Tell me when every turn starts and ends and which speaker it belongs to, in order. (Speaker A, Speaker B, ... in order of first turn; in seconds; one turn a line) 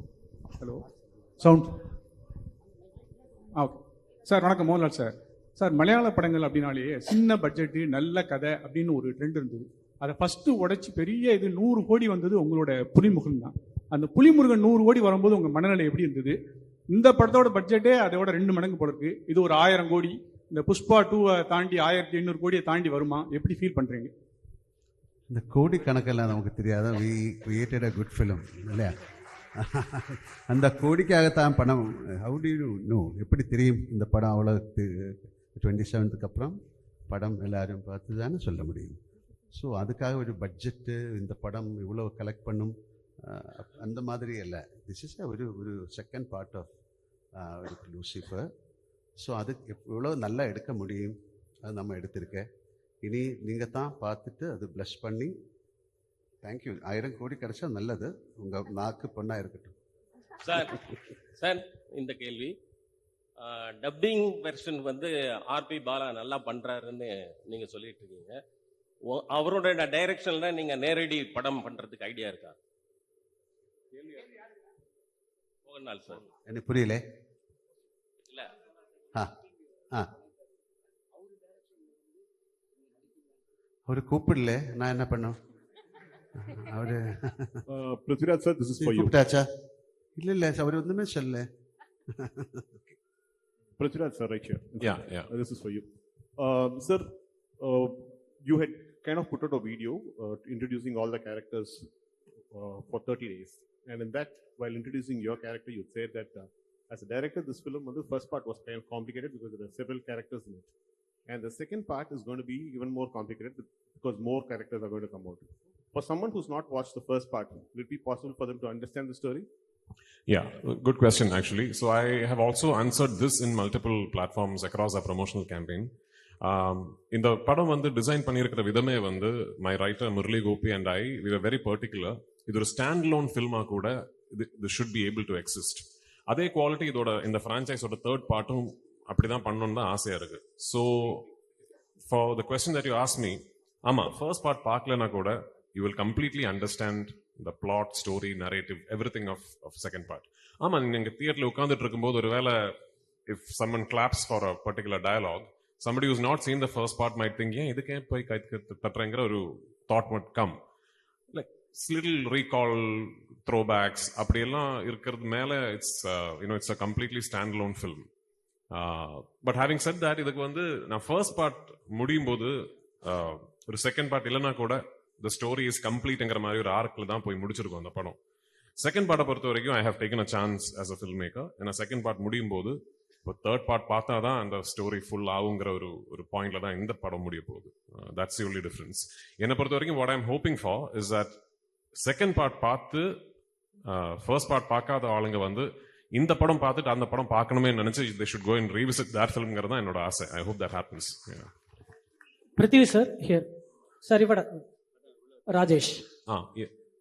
Speaker A: 0.6-0.8
Speaker A: 1.4-1.7
Speaker A: 3.5-16.4
Speaker A: 16.9-24.1
Speaker B: 25.3-28.9
Speaker B: 29.6-36.6
Speaker B: 37.1-39.0
Speaker B: 39.5-46.7
Speaker B: 47.4-48.5
Speaker B: 49.2-52.5
Speaker B: 53.0-55.3
Speaker B: 56.4-59.7
Speaker C: 60.4-60.8
Speaker C: 61.4-62.5
Speaker C: 63.4-68.4
Speaker C: 69.1-72.6
Speaker C: 75.7-76.3
Speaker B: 76.4-77.0
Speaker B: 83.9-85.3
Speaker B: 86.4-87.6
Speaker D: 87.7-89.1
Speaker B: 88.8-89.5
Speaker B: 90.2-91.5
Speaker B: 92.2-92.8
Speaker D: 93.8-101.9
Speaker E: 94.8-95.3
Speaker D: 102.5-110.7
Speaker D: 111.3-119.5
Speaker E: 120.3-125.9
Speaker E: 126.4-141.3
Speaker E: 142.1-152.7
Speaker E: 153.3-160.6
Speaker E: 161.3-168.0
Speaker E: 168.7-178.2
Speaker E: 178.8-191.3
Speaker E: 191.9-193.1
Speaker E: 193.9-201.5
Speaker F: 202.6-203.5
Speaker F: 204.0-204.7
Speaker F: 205.5-206.1
Speaker E: 206.3-206.7